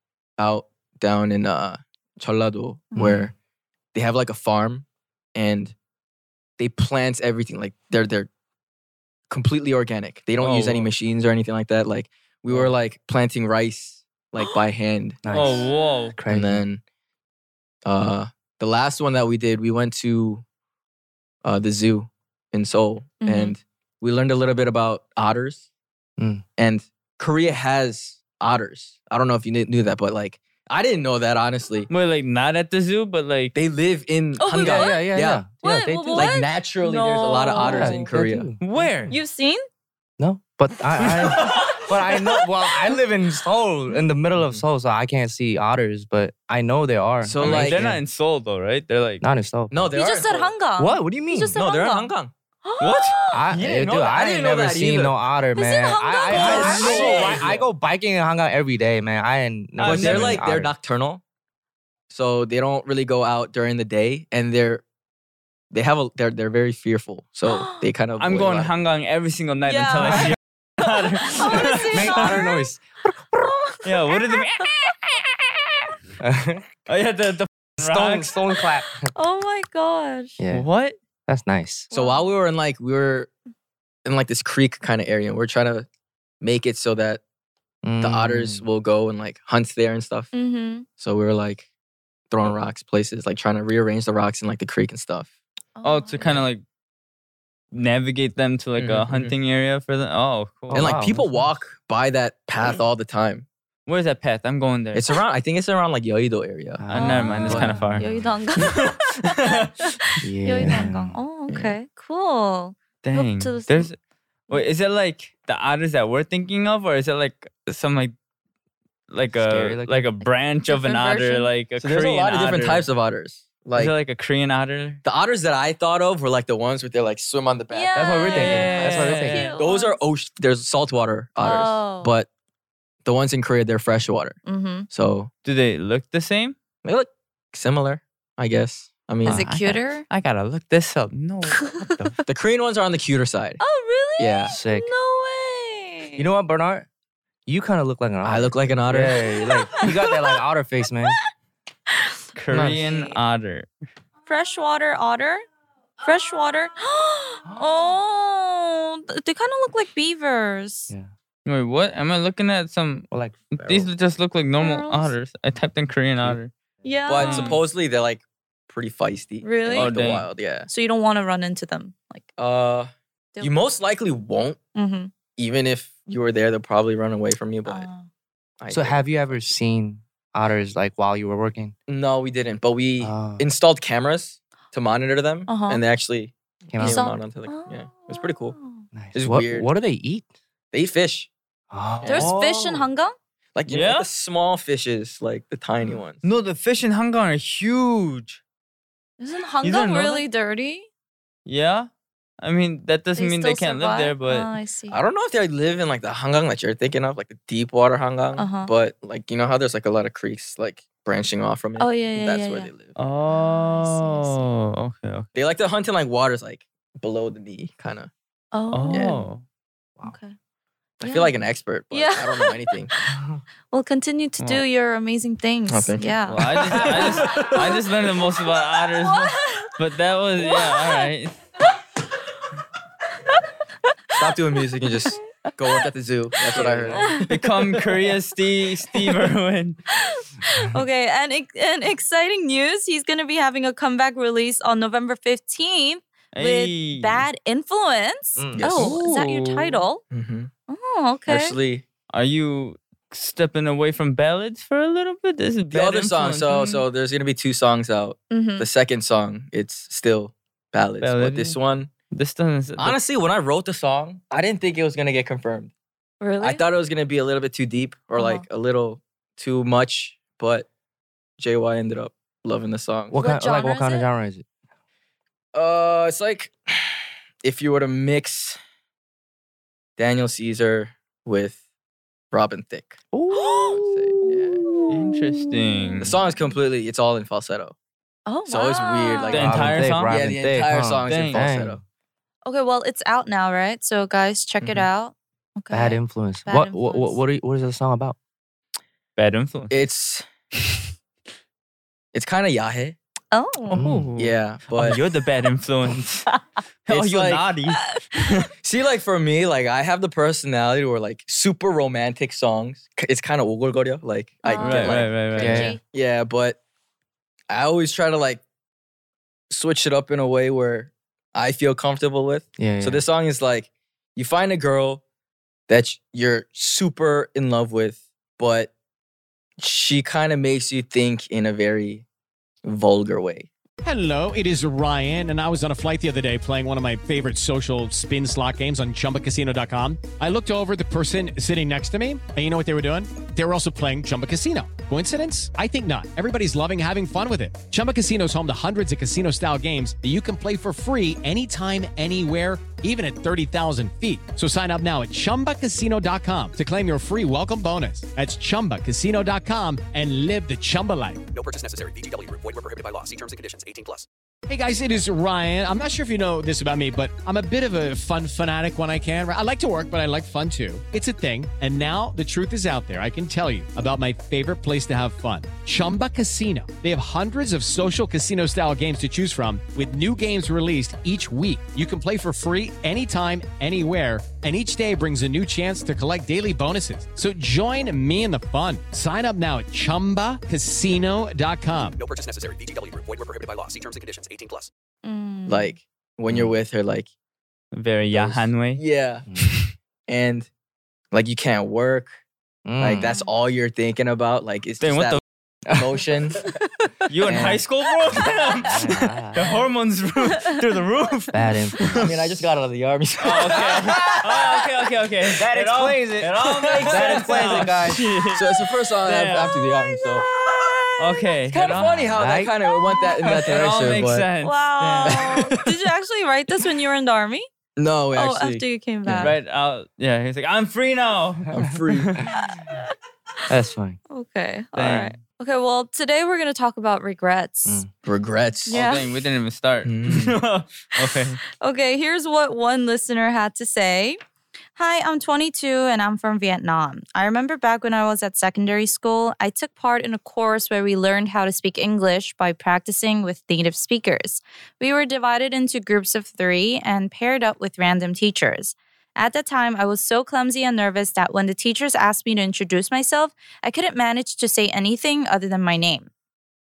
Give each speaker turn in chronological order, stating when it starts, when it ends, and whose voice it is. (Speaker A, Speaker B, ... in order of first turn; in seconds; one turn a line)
Speaker A: 0.4-3.3
Speaker B: 3.0-3.3
Speaker A: 3.9-5.7
Speaker A: 6.6-8.3
Speaker A: 9.3-15.2
Speaker C: 10.4-10.9
Speaker B: 15.2-16.6
Speaker C: 15.3-16.2
Speaker A: 16.3-16.8
Speaker A: 17.9-20.4
Speaker A: 21.4-25.7
Speaker D: 23.2-23.6
Speaker B: 26.2-26.4
Speaker A: 26.6-31.9
Speaker C: 31.9-33.5
Speaker A: 33.5-35.4
Speaker D: 34.4-38.1
Speaker B: 34.6-36.3
Speaker A: 36.1-38.5
Speaker B: 37.6-39.1
Speaker C: 38.6-39.1
Speaker D: 39.1-39.6
Speaker B: 40.2-48.0
Speaker C: 41.1-41.8
Speaker A: 44.4-44.6
Speaker A: 47.2-47.8
Speaker C: 47.4-49.2
Speaker B: 49.2-49.9
Speaker A: 49.7-50.5
Speaker D: 49.9-52.1
Speaker B: 50.8-51.6
Speaker A: 51.5-52.3
Speaker D: 52.6-53.4
Speaker C: 52.8-53.1
Speaker B: 53.3-60.7
Speaker A: 53.5-55.2
Speaker D: 55.5-57.4
Speaker A: 56.3-57.7
Speaker C: 56.3-57.5
Speaker C: 59.8-60.4
Speaker A: 59.8-61.2
Speaker A: 62.1-64.8
Speaker A: 65.7-68.7
Speaker D: 67.5-67.9
Speaker C: 68.2-72.4
Speaker D: 69.7-70.3
Speaker D: 70.9-72.7
Speaker B: 71.5-73.5
Speaker D: 73.4-74.4
Speaker C: 73.8-75.2
Speaker B: 76.2-76.7
Speaker C: 76.9-78.3
Speaker B: 77.8-79.1
Speaker D: 79.1-80.4
Speaker B: 80.4-80.7
Speaker C: 80.5-81.0
Speaker B: 81.3-81.9
Speaker D: 81.9-82.3
Speaker A: 81.9-83.3
Speaker A: 84.0-85.9
Speaker A: 86.4-87.2
Speaker B: 87.8-88.7
Speaker A: 88.0-90.3
Speaker D: 90.3-90.9
Speaker A: 91.0-91.7
Speaker A: 92.3-95.3
Speaker D: 95.8-96.5
Speaker C: 95.8-96.6
Speaker C: 97.7-100.9
Speaker A: 98.8-99.3
Speaker B: 100.7-101.5
Speaker A: 100.7-103.5
Speaker C: 103.9-105.0
Speaker A: 104.9-106.9
Speaker B: 106.8-108.3
Speaker C: 106.9-108.1
Speaker D: 106.9-113.9
Speaker C: 108.6-109.7
Speaker B: 110.2-111.2
Speaker A: 111.5-111.8
Speaker C: 113.0-114.0
Speaker C: 114.5-118.1
Speaker C: 119.1-122.9
Speaker B: 119.3-120.1
Speaker D: 120.7-121.5
Speaker A: 121.8-123.9
Speaker C: 123.8-125.0
Speaker A: 125.0-128.6
Speaker D: 127.7-130.0
Speaker B: 128.0-129.5
Speaker C: 128.2-129.6
Speaker A: 129.5-132.3
Speaker D: 131.4-132.2
Speaker A: 133.1-135.3
Speaker D: 134.5-134.9
Speaker C: 135.4-136.6
Speaker A: 136.8-139.4
Speaker C: 139.2-142.1
Speaker D: 139.2-140.1
Speaker A: 142.2-143.6
Speaker D: 143.6-146.3
Speaker A: 144.2-144.6
Speaker B: 144.5-144.9
Speaker B: 146.2-146.9
Speaker B: 147.5-151.2
Speaker A: 148.2-149.2
Speaker D: 149.4-150.3
Speaker C: 152.4-153.7
Speaker A: 152.5-152.9
Speaker D: 152.8-153.2
Speaker D: 154.3-155.4
Speaker D: 156.0-160.9
Speaker C: 161.5-166.5
Speaker B: 163.1-163.9
Speaker D: 164.6-165.1
Speaker D: 166.8-167.6
Speaker A: 167.1-170.7
Speaker C: 167.2-167.6
Speaker D: 169.4-169.9
Speaker C: 169.8-170.3
Speaker D: 170.7-172.3
Speaker A: 172.4-174.6
Speaker D: 174.8-175.1
Speaker A: 175.4-177.9
Speaker D: 177.7-178.1
Speaker A: 178.6-179.1
Speaker B: 178.7-181.7
Speaker A: 181.9-188.6
Speaker B: 183.0-183.5
Speaker D: 185.5-185.8
Speaker B: 186.7-187.1
Speaker D: 186.8-188.8
Speaker B: 188.9-190.3
Speaker A: 189.1-189.7
Speaker A: 190.7-191.3
Speaker B: 191.7-192.9
Speaker A: 192.0-192.3
Speaker D: 192.1-193.2
Speaker A: 193.6-196.2
Speaker C: 193.7-194.1
Speaker C: 196.2-198.4
Speaker D: 199.2-200.9
Speaker C: 199.6-200.3
Speaker C: 201.5-201.9
Speaker C: 202.4-204.5
Speaker D: 203.2-205.0
Speaker A: 204.9-213.0
Speaker D: 208.4-208.7
Speaker D: 211.8-212.7
Speaker C: 213.0-215.3
Speaker D: 213.3-214.4
Speaker A: 215.3-218.1
Speaker D: 218.5-219.2
Speaker C: 218.7-219.4
Speaker A: 218.9-219.2
Speaker D: 220.0-220.4
Speaker A: 221.0-222.9
Speaker D: 221.0-223.2
Speaker B: 223.2-223.4
Speaker D: 223.7-226.5
Speaker A: 225.7-227.8
Speaker C: 226.3-231.3
Speaker D: 229.0-229.7
Speaker D: 230.4-231.0
Speaker A: 234.1-237.3
Speaker B: 236.6-237.1
Speaker D: 236.9-237.3
Speaker C: 237.3-239.8
Speaker D: 239.9-250.0
Speaker C: 246.3-247.3
Speaker B: 248.4-249.1
Speaker A: 248.6-249.1
Speaker C: 248.9-249.8
Speaker A: 250.1-250.5
Speaker D: 250.7-251.6
Speaker A: 251.3-251.8
Speaker C: 252.1-256.9
Speaker A: 255.7-261.9
Speaker D: 258.3-258.7
Speaker C: 261.0-261.6
Speaker C: 262.1-263.0
Speaker A: 262.8-265.7
Speaker D: 266.2-266.6
Speaker A: 266.4-270.7
Speaker D: 268.1-268.4
Speaker A: 271.4-273.2
Speaker B: 273.1-274.4
Speaker D: 273.2-274.1
Speaker A: 275.5-278.6
Speaker A: 280.0-281.6
Speaker A: 282.3-283.0
Speaker B: 283.1-284.2
Speaker D: 283.3-283.8
Speaker A: 283.8-284.6
Speaker D: 284.6-284.9
Speaker C: 284.9-286.2
Speaker D: 285.5-285.9
Speaker A: 286.0-287.8
Speaker D: 288.3-289.4
Speaker A: 288.5-291.8
Speaker C: 289.3-290.2
Speaker B: 289.4-291.8
Speaker C: 291.1-291.4
Speaker D: 292.4-297.2
Speaker A: 294.6-294.9
Speaker B: 295.7-298.2
Speaker C: 299.2-299.9
Speaker A: 299.7-300.2
Speaker A: 302.1-303.0
Speaker D: 303.3-303.8
Speaker B: 303.7-304.1
Speaker C: 303.8-306.3
Speaker A: 304.2-305.0
Speaker C: 306.9-308.5
Speaker A: 306.9-307.5
Speaker A: 308.6-316.6
Speaker D: 314.4-315.8
Speaker C: 314.6-315.7
Speaker B: 315.4-315.8
Speaker A: 317.5-318.4
Speaker A: 319.5-325.0
Speaker B: 322.6-323.0
Speaker A: 325.7-328.7
Speaker A: 329.6-332.1
Speaker A: 332.6-333.5
Speaker E: 333.8-361.2
Speaker F: 361.3-364.1
Speaker E: 364.5-392.0
Speaker F: 392.0-394.7
Speaker D: 395.0-395.8
Speaker A: 395.5-397.1
Speaker B: 396.3-396.5
Speaker C: 397.7-398.8
Speaker A: 398.1-399.3
Speaker B: 399.3-399.6
Speaker A: 400.1-400.5
Speaker A: 401.1-402.2
Speaker B: 402.7-403.1
Speaker A: 402.8-405.2
Speaker D: 403.0-403.3
Speaker C: 404.8-405.2
Speaker B: 405.7-406.0
Speaker A: 405.7-406.4
Speaker C: 407.1-411.4
Speaker A: 407.2-407.6
Speaker B: 408.6-409.4
Speaker B: 411.3-412.1
Speaker C: 411.9-412.3
Speaker A: 412.0-414.6
Speaker C: 413.2-419.6
Speaker B: 413.8-414.2
Speaker B: 415.4-418.1
Speaker A: 416.6-417.8
Speaker A: 418.3-420.3
Speaker C: 421.0-422.1
Speaker A: 421.5-424.3
Speaker B: 422.1-422.5
Speaker C: 423.4-425.5
Speaker D: 424.4-427.5
Speaker A: 425.1-425.6
Speaker A: 427.8-429.4
Speaker D: 428.1-429.4
Speaker C: 429.2-432.2
Speaker A: 431.5-432.2
Speaker D: 432.4-432.8
Speaker B: 433.5-434.0
Speaker D: 434.1-437.9
Speaker C: 434.8-435.1
Speaker A: 438.0-438.9
Speaker D: 438.7-439.1
Speaker C: 438.7-441.4
Speaker A: 439.9-440.4
Speaker D: 441.5-444.2
Speaker D: 444.8-466.1